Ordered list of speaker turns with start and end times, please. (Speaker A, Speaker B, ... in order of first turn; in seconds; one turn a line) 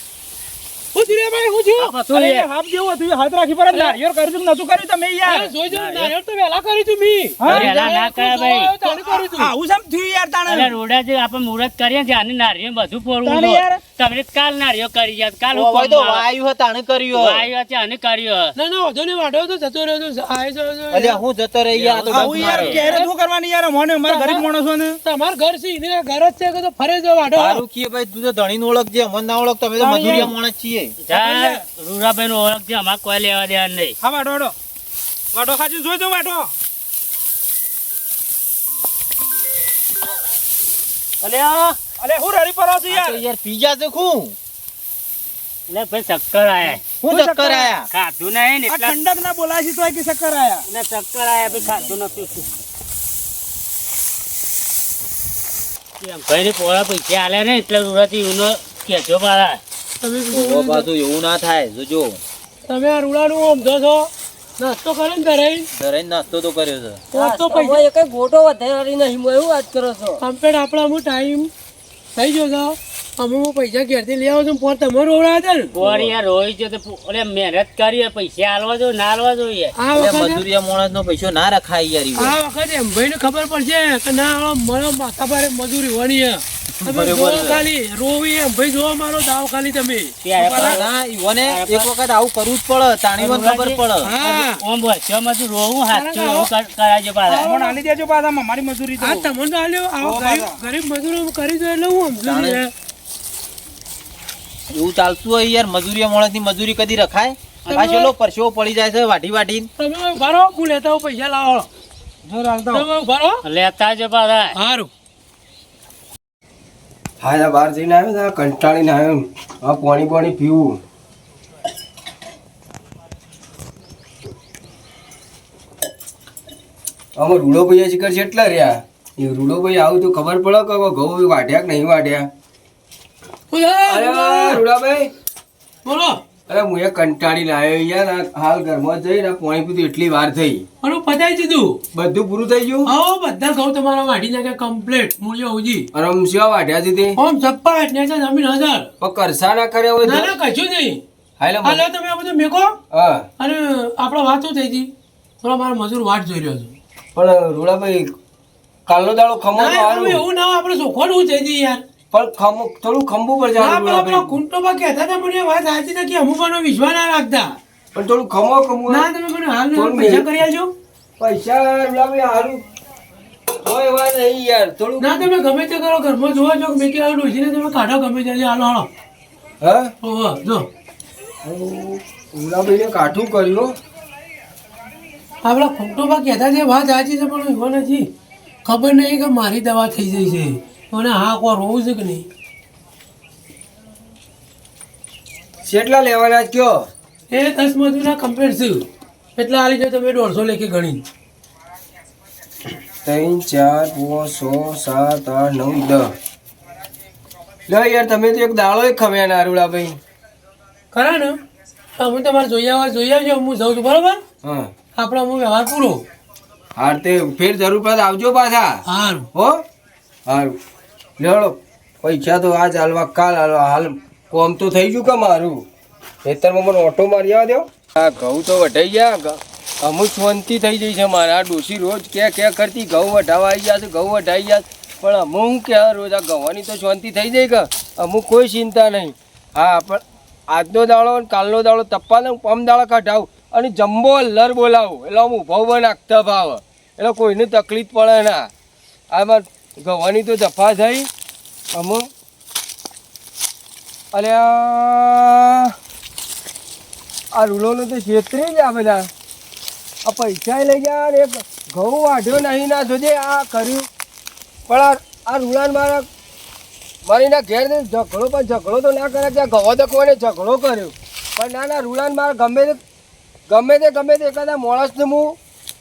Speaker A: 0.9-1.9
Speaker B: 1.8-2.5
Speaker C: 2.1-5.5
Speaker A: 3.7-4.0
Speaker A: 5.2-9.5
Speaker B: 5.7-6.1
Speaker C: 7.4-8.0
Speaker B: 7.4-8.8
Speaker C: 8.8-10.7
Speaker B: 10.5-16.3
Speaker C: 13.2-13.8
Speaker D: 15.5-17.5
Speaker B: 17.1-18.5
Speaker A: 18.6-21.2
Speaker D: 20.9-23.0
Speaker B: 21.7-22.8
Speaker C: 22.0-25.0
Speaker A: 22.6-23.1
Speaker A: 24.1-24.4
Speaker A: 25.0-27.6
Speaker D: 27.3-30.9
Speaker C: 29.8-30.4
Speaker B: 31.0-34.0
Speaker C: 31.1-31.6
Speaker C: 34.0-34.5
Speaker C: 35.3-36.5
Speaker B: 41.2-41.8
Speaker C: 42.0-43.2
Speaker D: 42.9-44.4
Speaker B: 45.7-46.9
Speaker D: 47.0-47.9
Speaker C: 47.1-47.7
Speaker B: 47.9-49.0
Speaker C: 48.7-50.6
Speaker B: 50.7-52.5
Speaker B: 56.0-59.6
Speaker A: 60.0-60.9
Speaker D: 60.3-62.2
Speaker A: 62.6-65.7
Speaker D: 65.7-67.0
Speaker A: 67.1-67.8
Speaker E: 67.1-70.2
Speaker A: 70.2-71.5
Speaker A: 72.1-75.7
Speaker B: 75.7-79.7
Speaker D: 75.8-76.1
Speaker A: 79.8-80.4
Speaker D: 79.9-82.3
Speaker A: 82.1-90.1
Speaker D: 86.8-87.6
Speaker B: 90.2-91.9
Speaker D: 90.4-94.1
Speaker C: 90.4-90.8
Speaker B: 93.2-97.4
Speaker A: 94.0-94.6
Speaker A: 95.9-96.5
Speaker A: 97.3-97.8
Speaker C: 97.4-99.3
Speaker A: 99.0-102.7
Speaker C: 100.0-100.5
Speaker D: 102.2-102.6
Speaker D: 104.7-109.7
Speaker A: 107.7-108.1
Speaker A: 109.8-111.7
Speaker C: 112.3-112.8
Speaker A: 112.7-113.4
Speaker B: 113.4-114.5
Speaker A: 114.5-114.9
Speaker F: 117.2-120.8
Speaker F: 127.2-132.3
Speaker A: 133.5-134.6
Speaker F: 133.9-135.1
Speaker A: 135.8-136.2
Speaker F: 136.5-140.7
Speaker A: 140.8-141.8
Speaker F: 141.9-142.9
Speaker A: 142.8-145.9
Speaker F: 145.9-147.2
Speaker A: 147.2-148.9
Speaker F: 149.0-150.3
Speaker A: 150.0-151.0
Speaker F: 151.4-151.8
Speaker A: 151.6-152.8
Speaker F: 152.9-153.3
Speaker A: 153.4-156.8
Speaker F: 157.1-158.1
Speaker F: 158.9-160.2
Speaker A: 159.5-161.8
Speaker F: 162.1-164.3
Speaker A: 163.6-167.6
Speaker F: 167.9-169.1
Speaker A: 168.9-170.7
Speaker F: 169.7-170.3
Speaker F: 171.2-172.6
Speaker F: 173.6-175.3
Speaker A: 175.0-178.9
Speaker F: 179.6-179.9
Speaker A: 180.0-180.7
Speaker F: 181.4-183.7
Speaker A: 185.4-188.1
Speaker A: 188.6-192.3
Speaker F: 195.6-196.9
Speaker A: 197.3-198.8
Speaker A: 199.4-201.1
Speaker F: 203.0-206.1
Speaker F: 207.7-209.9
Speaker A: 210.9-211.4
Speaker A: 212.0-214.2
Speaker F: 214.4-214.7
Speaker A: 214.9-216.0
Speaker F: 216.8-218.8
Speaker A: 218.9-219.3
Speaker F: 219.3-219.6
Speaker F: 220.3-220.6
Speaker F: 221.2-225.7
Speaker F: 226.2-248.5
Speaker F: 249.1-251.1
Speaker F: 251.7-252.0
Speaker F: 254.1-255.7
Speaker F: 257.3-259.1
Speaker F: 260.0-263.9
Speaker F: 264.7-266.0
Speaker F: 267.1-272.8
Speaker F: 273.5-275.4